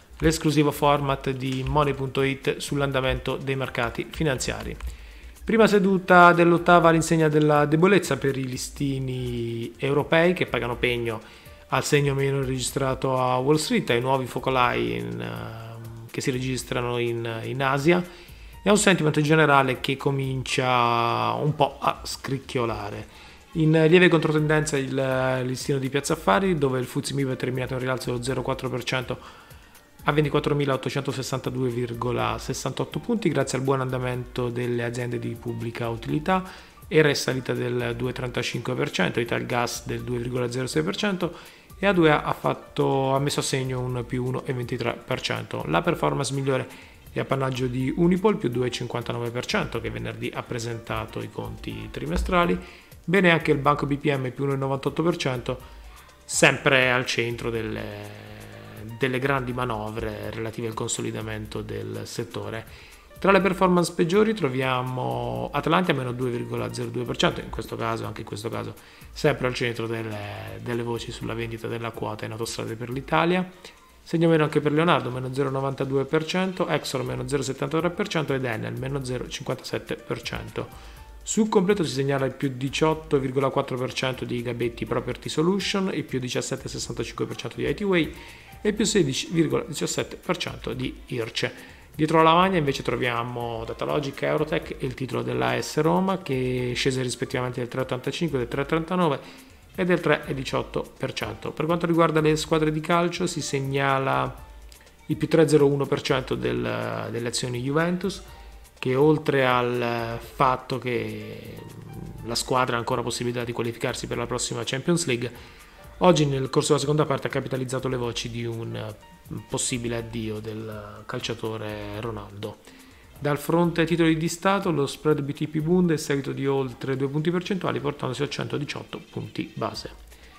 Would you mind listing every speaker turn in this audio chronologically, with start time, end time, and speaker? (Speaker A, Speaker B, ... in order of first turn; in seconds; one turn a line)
Speaker A: 0.2-4.8
Speaker A: 5.5-18.1
Speaker A: 18.6-29.2
Speaker A: 30.0-55.6
Speaker A: 56.3-62.7
Speaker A: 63.2-73.5
Speaker A: 74.0-80.7
Speaker A: 81.2-99.2
Speaker A: 99.8-104.3
Speaker A: 105.1-108.2
Speaker A: 108.8-115.3
Speaker A: 116.0-122.6
Speaker A: 123.2-130.0